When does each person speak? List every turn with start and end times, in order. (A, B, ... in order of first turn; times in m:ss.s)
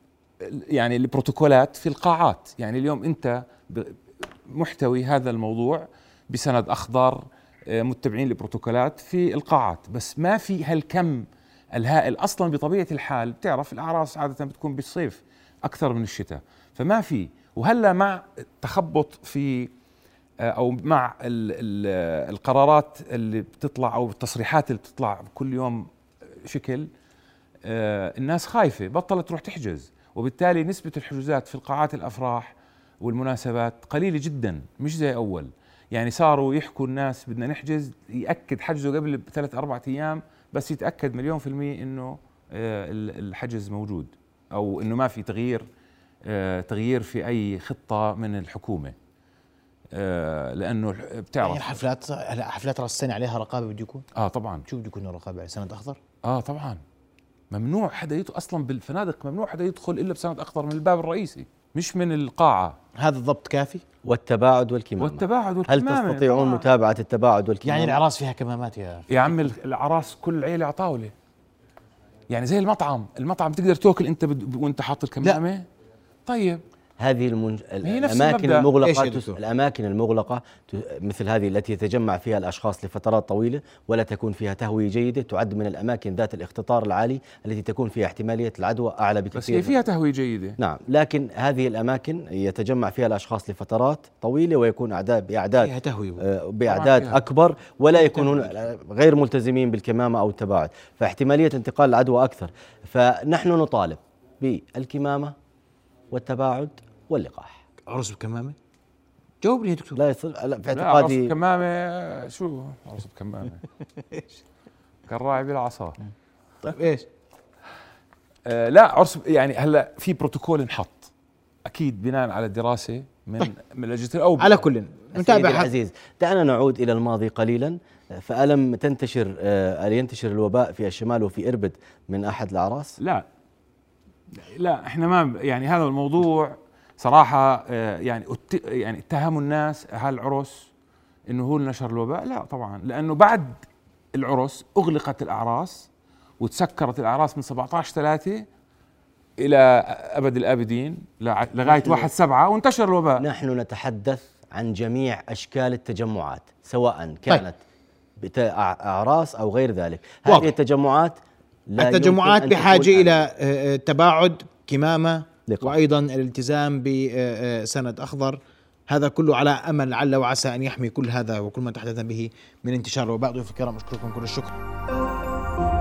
0:00.4-0:19.7 A
0:20.4-0:25.9 A
0:26.4-0:26.9 A
0:27.6-0:45.7 A
0:46.2-0:49.0 A
0:49.9-0:51.8 A
0:51.4-0:54.0 B
0:54.2-0:54.6 A
0:54.7-0:56.0 B
0:56.2-0:56.8 A
0:57.5-1:02.8 A
1:03.0-1:03.8 B
1:04.0-1:08.0 C
1:05.0-1:06.7 A
1:07.6-1:09.3 B
1:09.1-1:11.1 A
1:12.3-1:15.7 A
1:16.3-1:16.6 A
1:17.0-1:29.8 C
1:17.8-1:18.7 A
1:18.8-1:19.4 B
1:29.3-1:30.6 A
1:30.6-1:45.4 C
1:35.6-1:36.2 B
1:36.7-1:37.2 A
1:46.1-1:47.6 C
1:47.9-1:48.6 B
1:49.4-1:50.0 B
1:50.0-1:51.3 C
1:50.7-1:53.6 A
1:55.1-1:56.0 A
1:56.6-1:57.1 B
1:58.5-2:01.1 A
2:01.6-2:04.7 A
2:04.4-2:05.7 B
2:05.1-2:13.0 C
2:13.0-2:13.3 A
2:14.3-2:20.7 A
2:21.3-2:25.9 A
2:26.4-2:28.5 A
2:29.4-2:33.2 A
2:31.7-2:32.1 C
2:33.2-2:37.6 C
2:38.2-2:43.2 C
2:41.8-2:54.6 B
2:45.5-2:45.8 C